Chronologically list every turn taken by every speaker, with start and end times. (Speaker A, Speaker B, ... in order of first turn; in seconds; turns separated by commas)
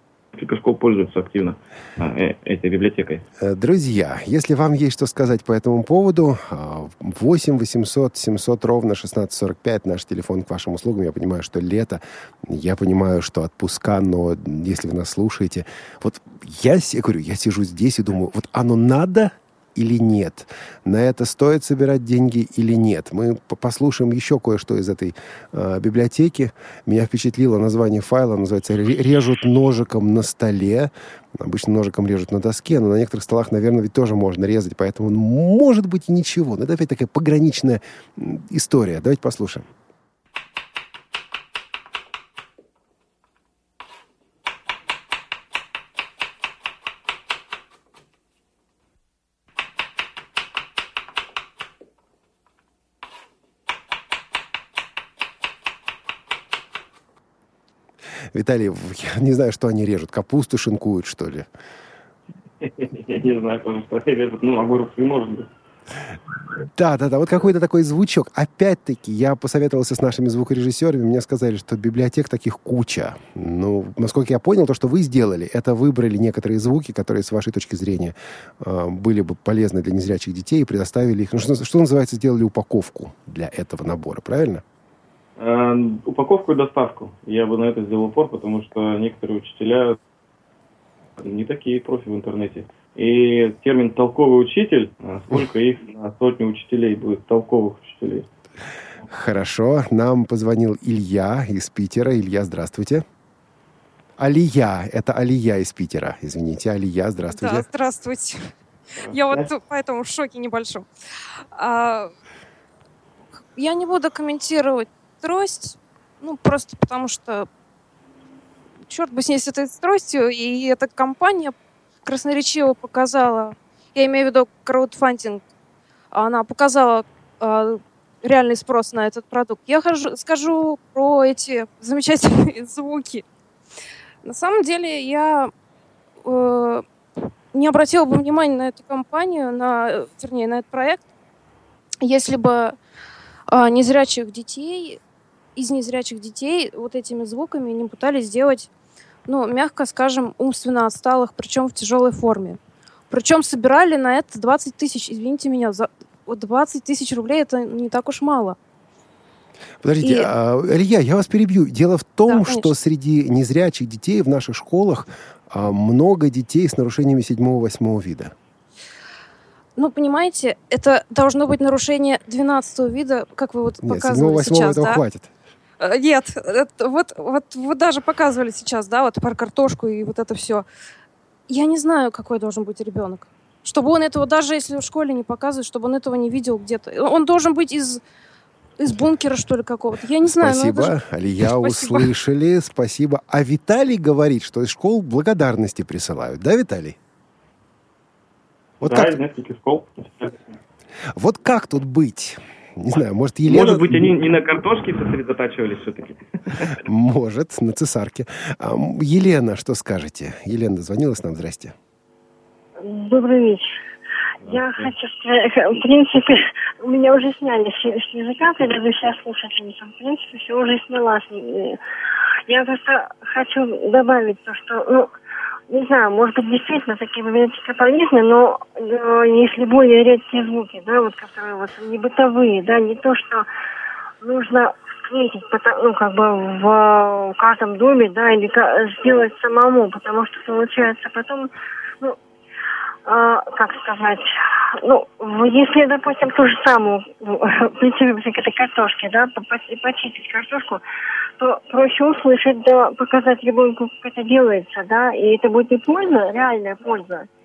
Speaker A: 0.3-3.2, Speaker B: 3.4-39.7, Speaker B: 58.3-61.5, Speaker A: 62.6-65.5, Speaker B: 66.7-84.6, Speaker A: 85.4-90.0, Speaker A: 91.2-98.3, Speaker B: 99.1-103.0, Speaker B: 104.2-107.7, Speaker C: 107.3-108.5, Speaker A: 109.0-109.5, Speaker C: 109.1-110.9, Speaker C: 111.5-112.1, Speaker C: 113.5-117.5, Speaker C: 118.9-125.4, Speaker C: 126.1-133.2, Speaker C: 134.2-135.5, Speaker C: 136.2-136.8, Speaker C: 137.5-141.0, Speaker C: 142.0-142.8, Speaker C: 143.5-145.0, Speaker C: 145.6-148.7, Speaker C: 149.3-152.6, Speaker C: 153.1-158.6, Speaker B: 159.8-168.3, Speaker C: 160.0-160.3, Speaker C: 162.3-162.7, Speaker C: 169.8-175.0, Speaker B: 173.8-175.3, Speaker C: 175.8-180.6, Speaker C: 181.5-188.0, Speaker C: 188.8-192.1, Speaker B: 190.2-197.0, Speaker B: 198.8-199.2, Speaker A: 198.8-200.4, Speaker B: 201.1-204.1, Speaker A: 203.4-206.8, Speaker B: 206.8-211.7, Speaker D: 212.8-213.7, Speaker A: 214.4-214.9, Speaker D: 214.4-221.8, Speaker D: 222.5-225.1, Speaker D: 225.7-233.5, Speaker D: 234.2-242.2, Speaker D: 243.1-244.3, Speaker D: 244.8-250.8, Speaker D: 251.4-257.3